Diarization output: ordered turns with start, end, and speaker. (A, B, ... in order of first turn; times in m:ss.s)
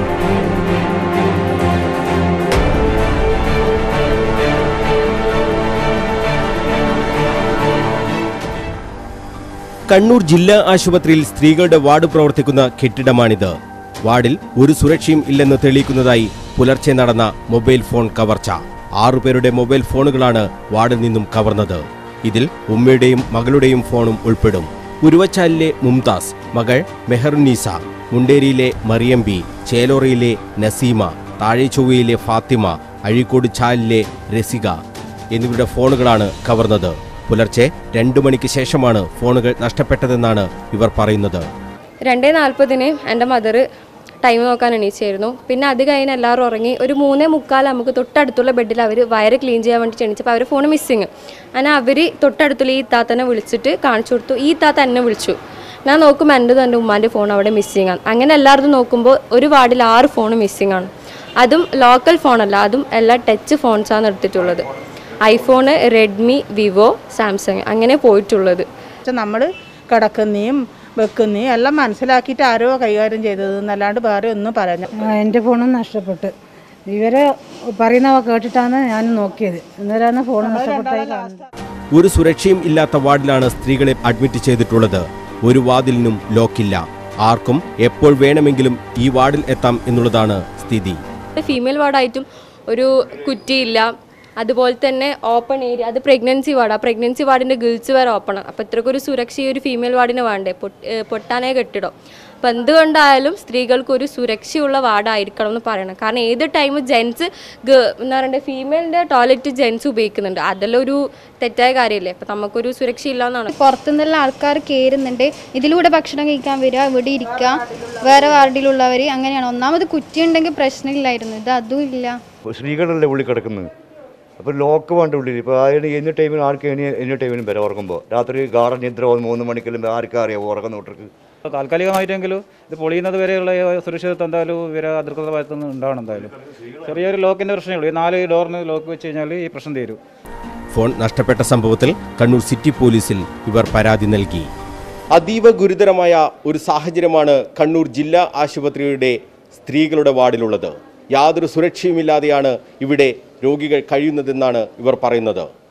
0:09.9-0:34.8 A
0:35.3-0:41.4 A
0:42.0-0:43.6 B
0:44.2-1:04.7 B
1:05.2-1:08.7 B
1:09.1-1:14.9 C
1:15.0-1:16.3 D
1:16.9-1:21.4 D
1:20.6-1:21.4 C
1:21.9-1:31.0 A
1:31.4-1:53.5 B
1:53.5-2:02.2 E
2:02.5-2:03.7 F
2:04.4-2:11.1 F
2:11.5-2:16.3 G
2:16.8-2:20.0 G
2:20.7-2:24.5 A
2:25.1-2:35.5 A